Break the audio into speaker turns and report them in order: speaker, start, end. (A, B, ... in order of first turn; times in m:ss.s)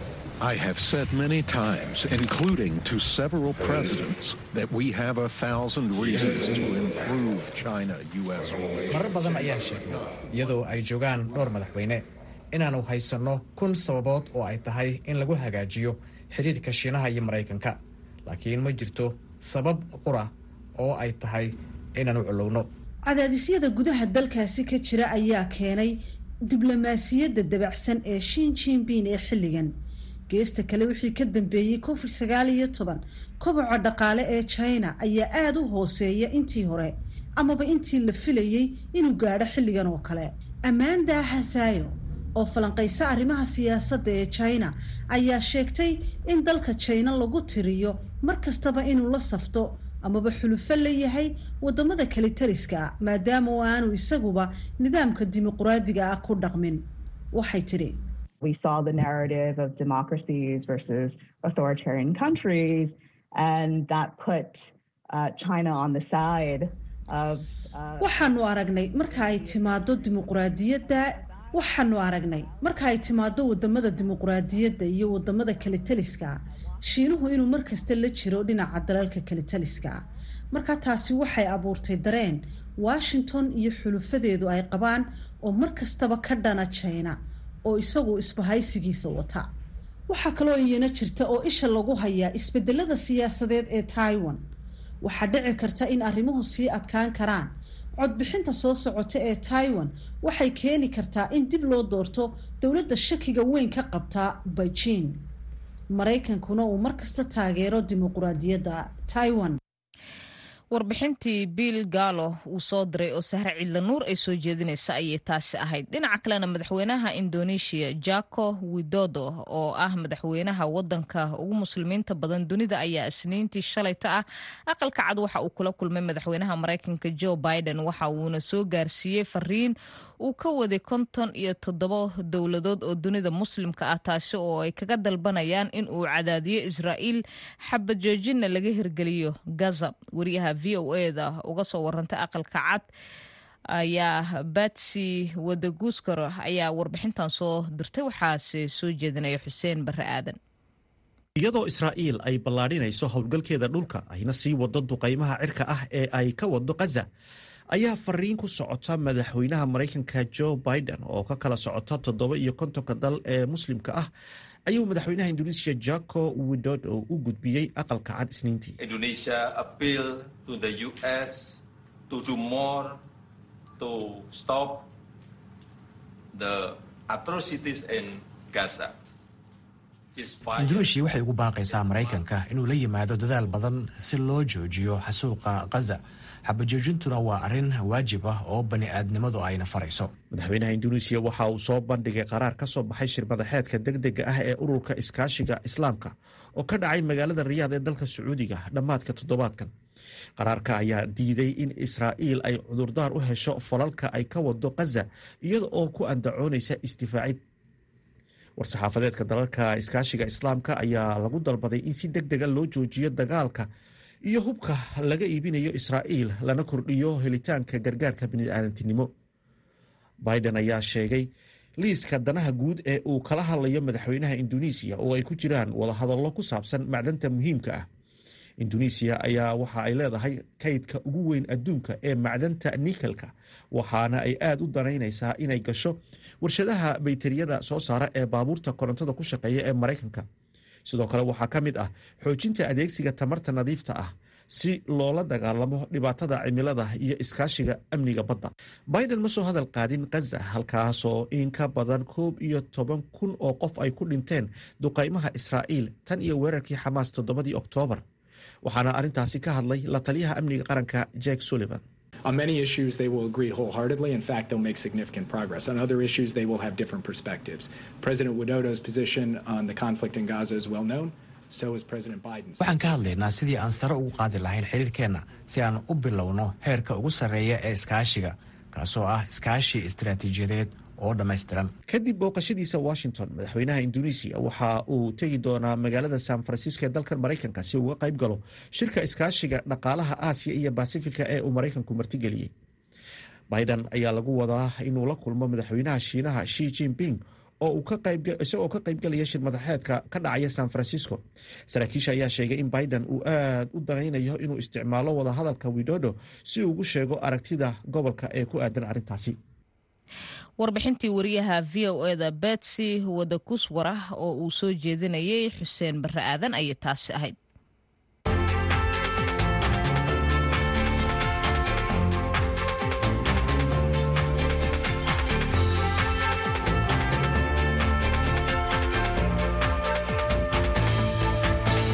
0:00.4-0:09.1 A
0:08.9-0:22.7 B
0:23.1-0:26.0 C
0:26.5-0:29.7 C
0:30.3-0:56.8 C
0:57.3-0:58.0 C
0:58.4-1:08.4 D
1:08.0-1:20.0 C
1:20.5-1:29.4 C
1:30.1-1:34.4 C
1:35.0-1:45.2 C
1:45.9-1:49.6 C
1:50.7-2:22.9 E
2:23.8-2:30.4 E
2:31.4-2:37.1 F
2:37.7-2:44.1 F
2:44.7-2:48.8 F
2:48.8-2:53.0 G
2:53.8-2:54.8 G
2:56.3-2:58.9 G
3:00.1-3:00.9 G
3:00.6-3:10.1 B
3:01.9-3:02.3 G
3:10.3-3:19.7 F
3:20.4-3:27.4 F
3:28.6-3:33.7 F
3:34.2-3:39.1 F
3:40.2-3:47.9 F
3:48.6-4:00.2 F
4:00.8-4:18.0 F
4:18.6-4:21.8 F
4:22.2-4:32.7 H
4:32.6-4:41.7 B
4:41.9-4:52.5 F
4:53.5-5:09.4 F
5:10.6-5:17.4 E